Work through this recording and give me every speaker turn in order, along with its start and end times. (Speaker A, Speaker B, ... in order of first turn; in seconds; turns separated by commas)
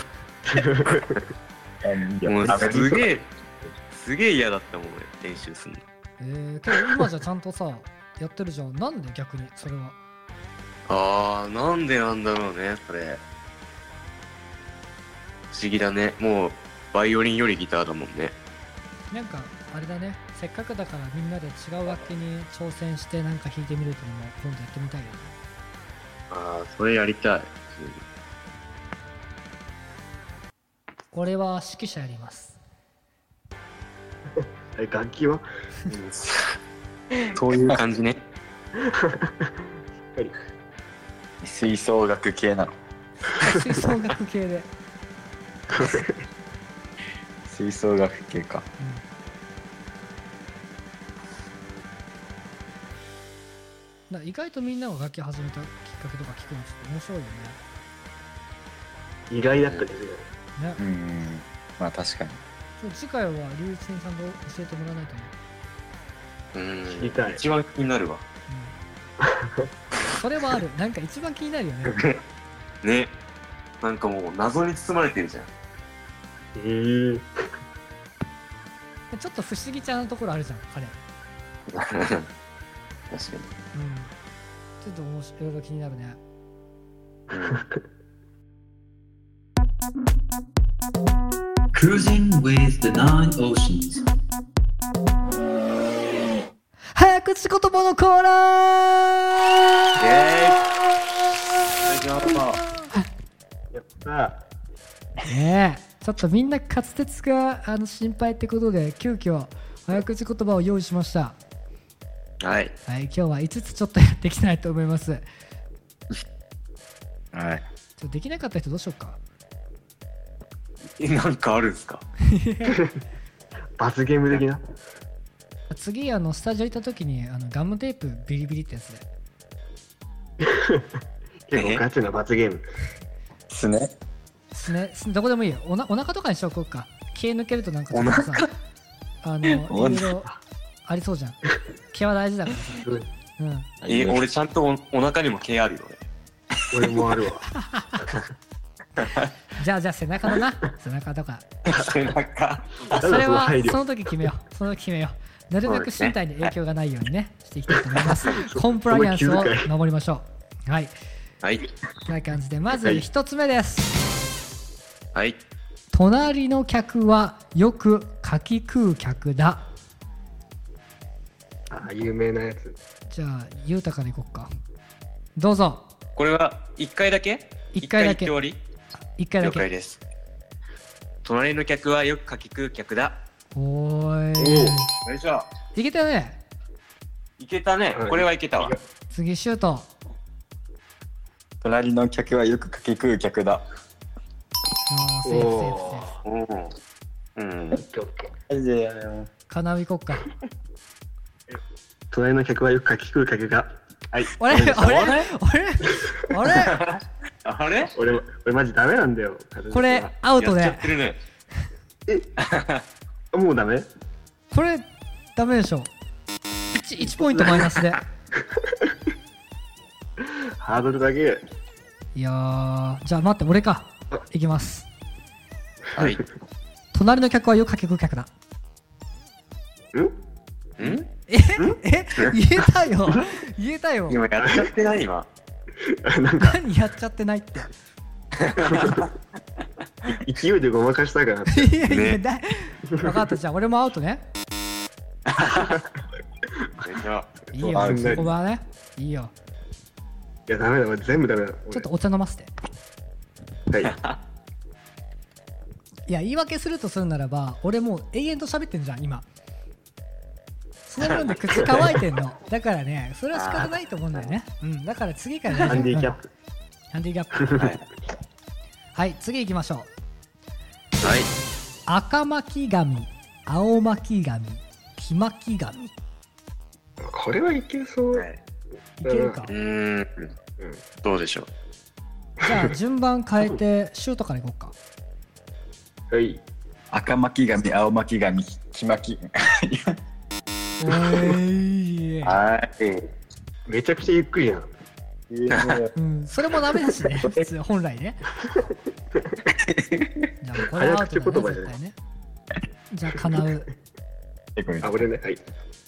Speaker A: 0.5-1.2, Speaker B: 1.8-3.1, Speaker C: 2.2-3.3, Speaker C: 3.9-5.8, Speaker D: 6.2-10.0, Speaker C: 10.9-13.2, Speaker C: 15.5-18.3, Speaker D: 19.1-25.3, Speaker C: 26.3-28.0, Speaker D: 31.1-32.6, Speaker A: 34.7-35.4, Speaker C: 35.9-36.5, Speaker C: 37.3-38.2, Speaker A: 38.8-40.3, Speaker B: 41.4-42.7, Speaker D: 43.3-44.7, Speaker A: 45.7-46.1, Speaker B: 47.4-48.6, Speaker D: 54.1-57.6, Speaker A: 59.3-60.3, Speaker B: 60.8-62.4, Speaker D: 62.8-65.3, Speaker C: 66.5-68.2, Speaker A: 66.9-67.4, Speaker D: 68.5-68.7, Speaker A: 69.2-69.7, Speaker D: 70.2-72.0, Speaker C: 72.8-73.1, Speaker C: 73.8-75.5, Speaker A: 76.5-77.3, Speaker D: 79.1-81.0, Speaker C: 81.7-82.3, Speaker C: 83.1-83.5, Speaker D: 83.7-84.1, Speaker D: 84.8-86.2, Speaker C: 87.3-87.6, Speaker E: 91.7-94.0, Speaker D: 96.9-99.6, Speaker C: 100.0-100.7, Speaker C: 101.8-102.6, Speaker A: 103.7-104.4, Speaker D: 105.2-111.3, Speaker C: 112.4-112.7, Speaker D: 112.9-115.2, Speaker B: 117.3-117.6, Speaker D: 118.0-119.2, Speaker C: 121.0-122.0, Speaker D: 122.2-122.8, Speaker A: 123.8-124.6, Speaker D: 125.7-129.0, Speaker A: 130.4-130.9, Speaker A: 131.5-132.6, Speaker C: 131.5-131.8, Speaker B: 133.5-133.9, Speaker D: 134.5-138.5, Speaker C: 137.9-138.5, Speaker D: 139.2-140.3, Speaker B: 139.7-140.2, Speaker D: 140.8-141.4, Speaker D: 141.9-142.8, Speaker A: 142.8-143.1, Speaker D: 143.4-143.7, Speaker B: 143.8-144.2, Speaker C: 143.8-146.0, Speaker A: 146.7-147.5, Speaker D: 147.5-148.0, Speaker C: 149.0-149.3, Speaker D: 149.6-151.4, Speaker C: 151.7-152.9, Speaker A: 152.9-153.8, Speaker D: 153.0-160.9, Speaker C: 155.7-156.1, Speaker A: 158.3-159.7, Speaker C: 161.4-161.7, Speaker D: 162.1-163.9, Speaker D: 165.9-169.7, Speaker A: 171.7-172.8, Speaker D: 173.1-174.5, Speaker D: 175.3-175.8, Speaker C: 176.2-178.6, Speaker D: 177.7-178.3, Speaker D: 179.2-179.7, Speaker C: 179.4-180.0, Speaker C: 181.2-183.2, Speaker D: 183.5-184.9, Speaker A: 184.4-184.8, Speaker C: 185.0-185.5, Speaker D: 185.7-186.4, Speaker C: 187.4-188.7, Speaker A: 187.9-188.8, Speaker D: 189.1-189.9, Speaker B: 191.6-193.6, Speaker D: 194.9-196.1, Speaker A: 195.2-196.2, Speaker C: 196.2-196.7, Speaker C: 197.3-197.8, Speaker A: 197.7-198.3, Speaker B: 198.5-199.3, Speaker D: 199.5-200.3, Speaker A: 202.1-205.1, Speaker D: 204.4-206.9, Speaker C: 204.5-205.2, Speaker C: 206.5-207.9, Speaker A: 207.9-210.1, Speaker D: 209.7-210.9, Speaker C: 210.4-211.2, Speaker C: 212.4-212.8, Speaker A: 213.3-213.9, Speaker D: 214.5-215.9, Speaker D: 216.7-218.0, Speaker A: 218.4-218.7, Speaker A: 220.2-221.4, Speaker D: 222.1-224.9, Speaker C: 225.9-226.2, Speaker D: 226.9-228.3, Speaker C: 230.8-231.1, Speaker D: 231.3-234.2, Speaker C: 234.1-235.3, Speaker A: 234.4-234.7, Speaker A: 235.8-236.6, Speaker D: 236.4-237.7, Speaker C: 238.4-239.0, Speaker A: 238.7-239.0, Speaker A: 240.1-241.8, Speaker D: 241.5-244.2, Speaker C: 241.9-242.2, Speaker C: 245.3-245.7, Speaker A: 245.4-245.9, Speaker C: 246.8-247.3, Speaker A: 247.5-248.3, Speaker D: 247.5-249.3, Speaker B: 247.7-248.3, Speaker A: 250.5-251.9, Speaker D: 251.7-252.5, Speaker A: 253.7-253.9, Speaker C: 253.8-254.2, Speaker D: 256.1-259.2, Speaker D: 260.9-266.1, Speaker C: 263.3-264.3, Speaker A: 265.6-266.3, Speaker D: 266.9-267.5, Speaker A: 267.4-267.7, Speaker C: 267.6-267.8, Speaker D: 268.9-269.9, Speaker C: 271.0-271.3, Speaker D: 271.9-275.9, Speaker A: 277.0-278.3, Speaker C: 278.1-278.4, Speaker D: 279.0-279.5, Speaker A: 279.0-279.4, Speaker C: 279.5-280.3, Speaker C: 281.0-281.5, Speaker D: 282.4-284.7, Speaker A: 286.1-286.4, Speaker B: 286.9-290.0, Speaker D: 290.8-292.4, Speaker A: 290.9-291.4, Speaker C: 292.2-293.1, Speaker A: 293.7-294.7, Speaker B: 295.3-295.9, Speaker C: 295.5-295.8, Speaker D: 295.9-298.2, Speaker A: 298.4-299.4, Speaker B: 299.6-300.2, Speaker D: 300.4-301.9, Speaker A: 300.7-301.7, Speaker D: 302.9-303.7, Speaker B: 304.6-305.1, Speaker A: 304.8-305.4